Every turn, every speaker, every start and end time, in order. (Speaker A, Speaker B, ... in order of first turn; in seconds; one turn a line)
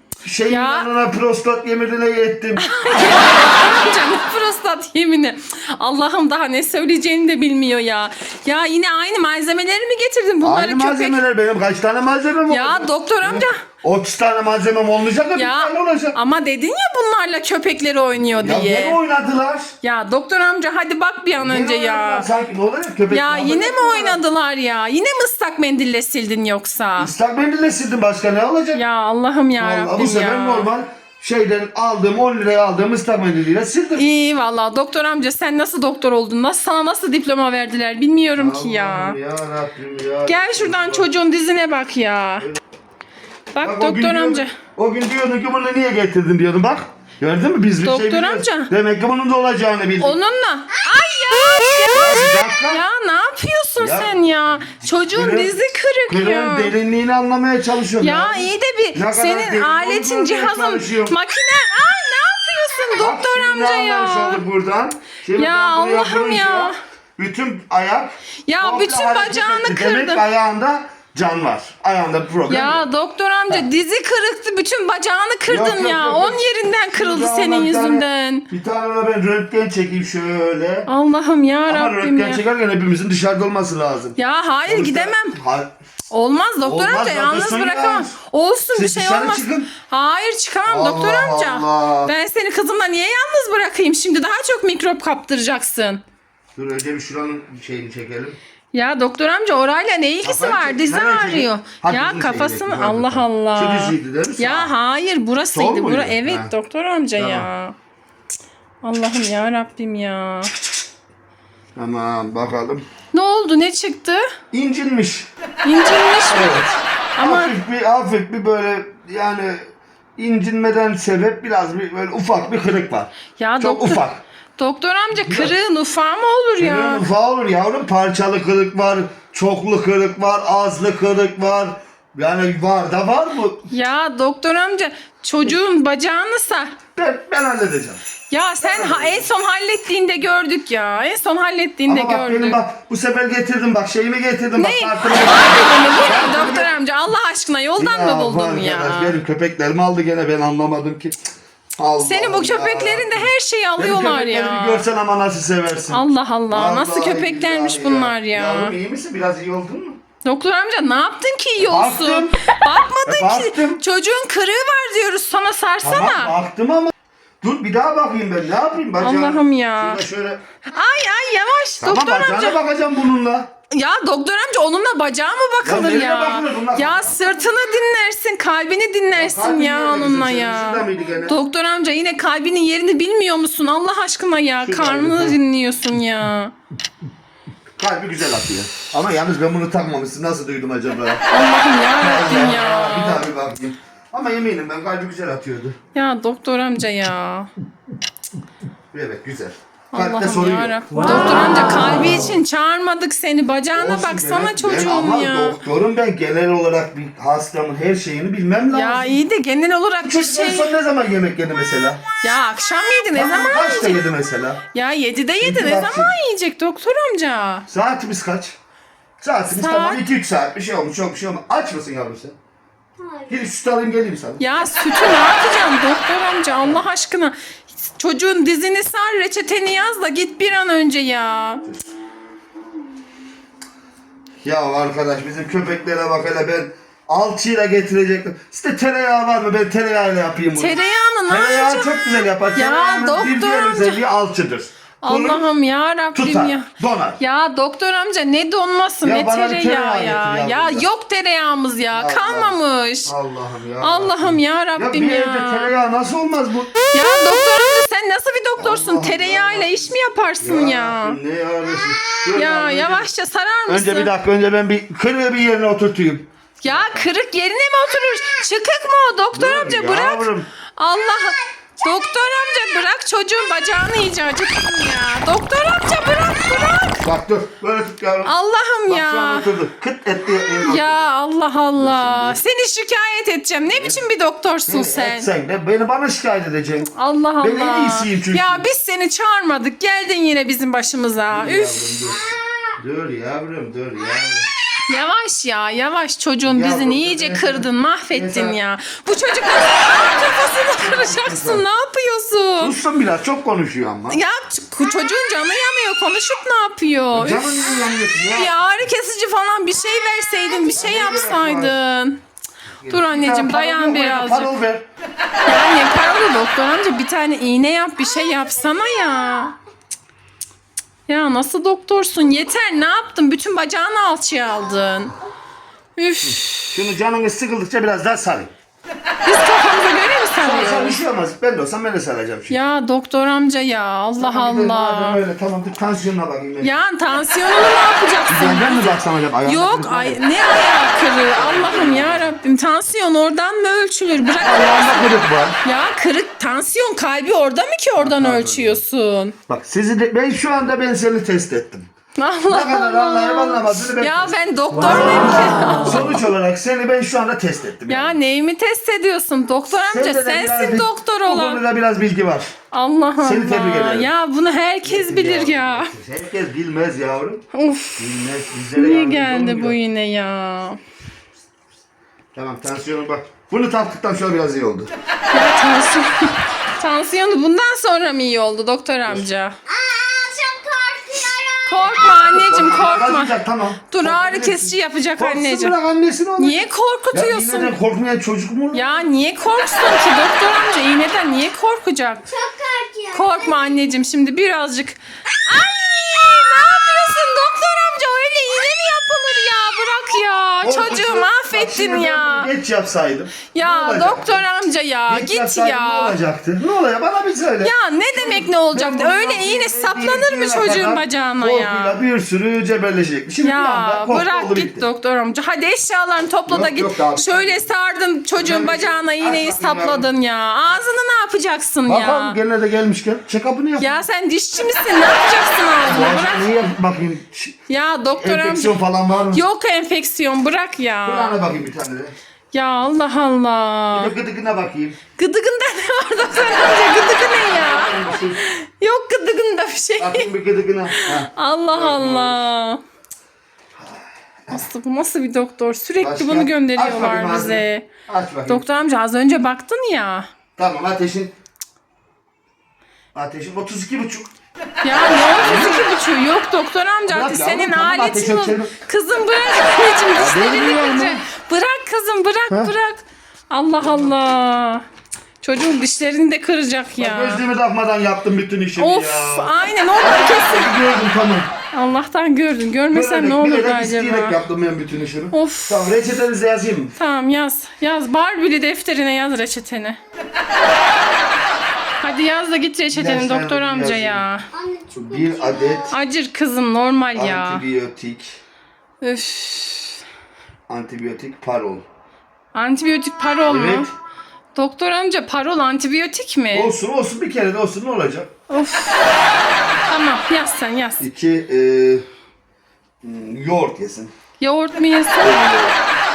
Speaker A: 0.2-3.3
Speaker B: 0.5-0.9
Speaker B: 2.6-11.2
Speaker A: 10.4-16.2
Speaker B: 12.5-13.6
Speaker B: 15.3-19.0
Speaker A: 18.4-19.7
Speaker B: 19.8-22.3
Speaker A: 21.4-24.2
Speaker B: 23.1-27.1
Speaker A: 27.0-28.8
Speaker B: 28.7-30.7
Speaker A: 29.6-34.1
Speaker B: 34.0-39.2
Speaker A: 38.4-41.1
Speaker B: 40.3-42.5
Speaker B: 43.5-44.6
Speaker A: 43.6-50.2
Speaker B: 47.8-48.7
Speaker B: 50.0-56.7
Speaker A: 51.9-52.8
Speaker A: 53.8-54.2
Speaker A: 54.9-55.6
Speaker A: 56.1-61.2
Speaker B: 58.0-64.4
Speaker A: 62.9-72.9
Speaker B: 65.4-66.8
Speaker B: 68.5-70.2
Speaker B: 72.5-78.5
Speaker A: 75.5-80.9
Speaker B: 80.9-82.4
Speaker A: 81.7-85.7
Speaker B: 84.2-85.4
Speaker B: 86.1-96.0
Speaker A: 86.6-88.2
Speaker A: 88.7-89.7
Speaker A: 90.7-92.1
Speaker A: 96.5-98.4
Speaker B: 98.7-107.8
Speaker A: 100.2-104.7
Speaker A: 105.5-106.5
Speaker A: 107.2-107.5
Speaker B: 108.8-110.5
Speaker A: 111.8-112.9
Speaker B: 113.1-114.2
Speaker A: 114.5-115.3
Speaker B: 115.6-116.6
Speaker A: 116.3-124.2
Speaker B: 117.2-117.5
Speaker B: 123.4-124.0
Speaker B: 124.6-127.1
Speaker A: 125.2-125.5
Speaker A: 126.6-133.7
Speaker B: 133.7-136.8
Speaker A: 136.9-138.0
Speaker B: 138.3-142.6
Speaker A: 138.6-139.2
Speaker A: 141.9-146.7
Speaker B: 144.6-149.2
Speaker A: 147.8-151.2
Speaker A: 151.8-160.0
Speaker B: 152.0-154.9
Speaker B: 155.9-158.8
Speaker B: 160.2-166.3
Speaker A: 161.6-162.4
Speaker A: 163.1-163.8
Speaker A: 165.8-170.4
Speaker B: 169.0-170.0
Speaker B: 170.7-172.6
Speaker A: 171.8-173.5
Speaker B: 173.7-186.5
Speaker A: 175.6-177.2
Speaker A: 179.1-181.4
Speaker A: 184.6-185.4
Speaker A: 187.8-191.2
Speaker B: 191.3-193.3
Speaker A: 192.0-195.8
Speaker B: 195.9-197.5
Speaker A: 198.9-202.3
Speaker B: 199.9-205.6
Speaker A: 203.8-209.2
Speaker B: 208.7-210.8
Speaker A: 210.0-212.0
Speaker B: 212.2-214.1
Speaker A: 213.1-214.6
Speaker B: 214.7-217.7
Speaker A: 215.4-216.1
Speaker A: 217.7-218.6
Speaker A: 219.2-222.4
Speaker B: 219.5-220.0
Speaker A: 223.2-224.4
Speaker B: 224.4-231.7
Speaker A: 234.4-245.5
Speaker B: 240.6-244.0
Speaker B: 245.0-253.1
Speaker A: 246.1-247.2
Speaker A: 249.0-250.9
Speaker A: 251.9-252.6
Speaker A: 253.1-256.8
Speaker B: 253.8-255.7
Speaker B: 256.9-261.2
Speaker A: 258.6-259.8
Speaker A: 260.4-263.1
Speaker B: 262.3-264.1
Speaker A: 263.7-267.1
Speaker B: 266.6-277.0
Speaker A: 269.3-270.5
Speaker A: 277.0-278.3
Speaker B: 278.2-279.5
Speaker A: 278.9-281.1
Speaker B: 280.6-285.3
Speaker A: 281.8-282.4
Speaker A: 283.7-284.0
Speaker A: 284.7-286.9
Speaker B: 286.9-292.1
Speaker A: 287.4-288.6
Speaker A: 291.3-294.5
Speaker B: 294.9-302.8
Speaker A: 296.5-298.6
Speaker A: 300.8-301.6
Speaker A: 302.6-304.2
Speaker B: 304.1-312.2
Speaker A: 307.1-308.6
Speaker A: 310.7-311.8
Speaker A: 312.8-314.9
Speaker B: 312.9-314.5
Speaker B: 315.5-319.6
Speaker B: 321.1-325.1
Speaker B: 326.0-326.9
Speaker A: 326.2-328.5
Speaker B: 329.2-331.0
Speaker A: 330.4-332.6
Speaker B: 332.5-335.2
Speaker A: 334.2-336.8
Speaker B: 336.6-349.4
Speaker A: 338.3-340.2
Speaker A: 341.4-342.3
Speaker A: 344.4-345.6
Speaker A: 348.0-348.8
Speaker A: 349.5-351.9
Speaker B: 352.2-356.2
Speaker A: 352.5-358.2
Speaker B: 357.9-361.6
Speaker A: 359.8-362.5
Speaker B: 362.7-365.9
Speaker A: 363.2-364.1
Speaker A: 364.8-367.5
Speaker B: 367.5-370.8
Speaker A: 368.0-369.8
Speaker A: 372.4-374.9
Speaker B: 375.3-379.6
Speaker C: 379.8-381.6
Speaker B: 381.6-385.8
Speaker A: 382.0-389.1
Speaker B: 386.4-387.8
Speaker B: 388.7-392.4
Speaker C: 392.4-393.1
Speaker B: 393.1-402.5
Speaker A: 400.6-404.4
Speaker B: 403.5-406.2
Speaker A: 405.1-414.9
Speaker B: 407.6-412.0
Speaker B: 413.4-422.4
Speaker A: 416.5-417.6
Speaker A: 418.4-420.1
Speaker A: 421.9-424.0
Speaker B: 423.8-426.5
Speaker A: 425.8-427.6
Speaker B: 427.7-428.8
Speaker A: 428.2-429.4
Speaker B: 429.3-431.4
Speaker A: 431.1-432.1
Speaker B: 432.5-434.1
Speaker A: 433.9-435.0
Speaker B: 435.2-440.3
Speaker A: 437.4-438.4
Speaker A: 440.0-442.4
Speaker B: 440.9-442.8
Speaker A: 443.8-444.7
Speaker B: 444.5-447.9
Speaker A: 446.0-448.6
Speaker B: 448.5-450.3
Speaker A: 450.6-451.3
Speaker A: 453.1-454.3
Speaker B: 454.8-464.8
Speaker A: 455.3-455.9
Speaker A: 457.1-458.8
Speaker A: 460.1-461.2
Speaker A: 463.8-464.1
Speaker B: 465.4-467.4
Speaker A: 467.0-471.5
Speaker B: 468.8-470.7
Speaker B: 471.7-474.4
Speaker A: 472.9-476.9
Speaker B: 475.3-475.9
Speaker B: 477.0-480.0
Speaker B: 482.0-484.5
Speaker A: 482.9-484.2
Speaker A: 484.9-486.0
Speaker B: 485.9-487.6
Speaker A: 487.1-488.4
Speaker B: 489.0-490.0
Speaker A: 490.7-491.9
Speaker B: 492.5-493.9
Speaker A: 493.4-493.9
Speaker B: 494.6-496.7
Speaker A: 496.5-498.3
Speaker B: 498.5-499.1
Speaker B: 499.9-501.1
Speaker A: 501.0-502.1
Speaker A: 503.0-504.1
Speaker B: 504.4-505.4
Speaker A: 505.2-505.8